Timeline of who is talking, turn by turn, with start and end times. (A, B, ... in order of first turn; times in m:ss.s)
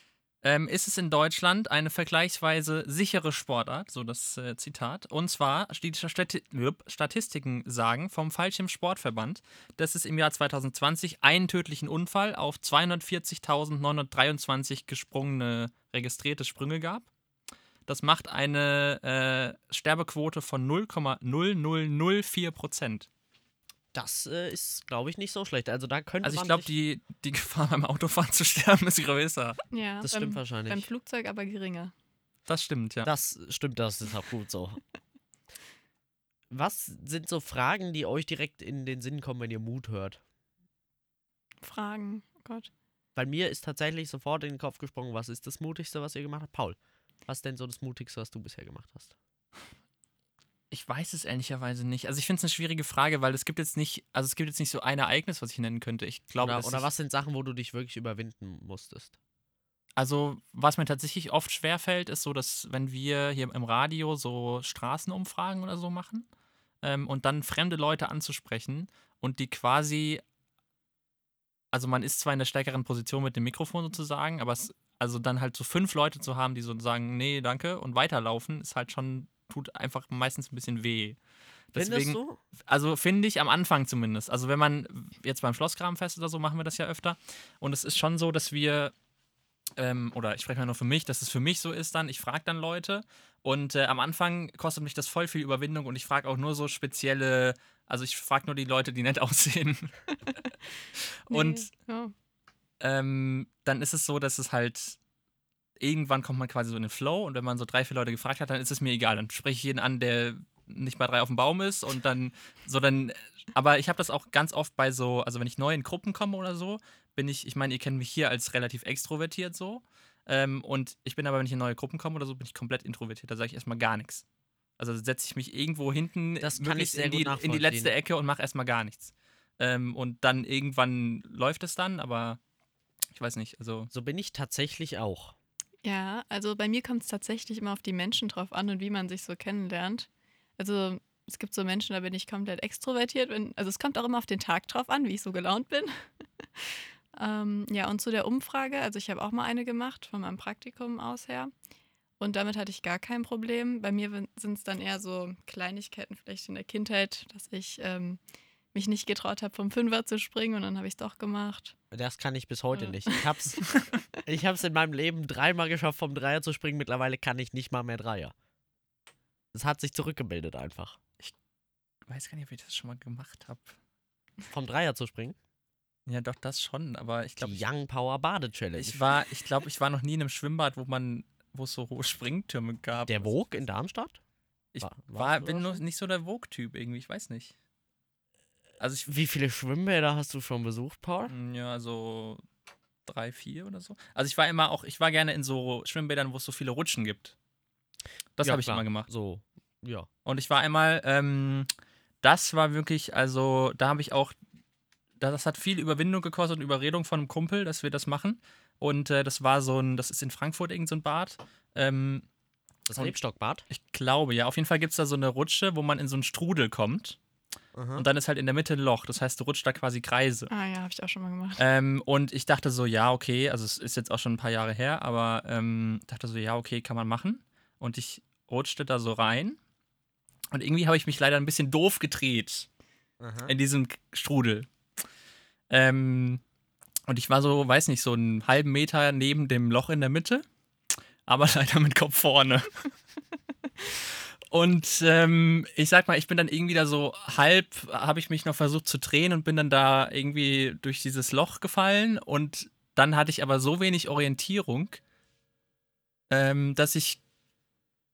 0:00.4-0:17.1 A
0:17.9-0:23.1 A
0:23.9-0:26.7 B
0:26.2-0:29.6 A
0:29.7-0:31.9 C
0:30.0-0:30.9 B
0:32.5-0:33.1 A
0:33.0-0:34.8 B
0:36.5-0:40.2 B
0:41.6-0:42.7 C
0:43.1-0:49.1 B
0:50.7-0:56.9 A
0:56.4-0:59.2 B
1:00.0-1:06.2 A
1:06.8-1:10.2 A
1:11.7-1:21.2 A
1:21.7-1:28.9 A
1:21.8-1:22.4 B
1:29.8-1:39.9 A
1:41.3-1:41.7 A
1:41.3-1:42.1 C
1:42.8-1:45.0 A
1:45.8-2:04.2 A
2:04.8-2:12.4 A
2:06.4-2:07.9 B
2:13.1-2:13.9 A
2:13.9-2:15.3 B
2:15.8-2:25.9 C
2:27.1-2:31.5 C
2:32.2-2:38.2 C
2:38.7-2:41.7 C
2:41.9-2:43.6 B
2:42.7-2:43.2 C
2:44.2-2:48.3 B
2:49.5-2:51.0 B
2:52.1-2:53.7 A
2:54.5-2:55.4 B
2:56.1-2:57.7 A
2:57.4-2:59.2 B
2:58.8-3:03.4 A
3:03.1-3:04.2 B
3:04.7-3:07.5 A
3:04.8-3:05.8 B
3:08.8-3:09.1 A
3:09.1-3:11.3 B
3:11.3-3:12.4 A
3:13.1-3:17.3 A
3:18.4-3:19.1 A
3:18.4-3:20.1 B
3:20.2-3:21.7 A
3:22.2-3:24.3 A
3:25.2-3:32.2 A
3:32.9-3:33.6 B
3:33.7-3:37.2 A
3:37.7-3:38.1 B
3:38.0-3:40.5 A
3:40.5-3:41.6 C
3:41.6-3:49.6 A
3:50.5-3:52.7 A
3:53.2-3:53.5 B
3:53.5-3:54.7 A
3:55.7-3:56.4 A
3:57.1-4:00.4 A
4:01.3-4:02.9 A
4:04.5-4:15.0 A
4:16.3-4:17.2 A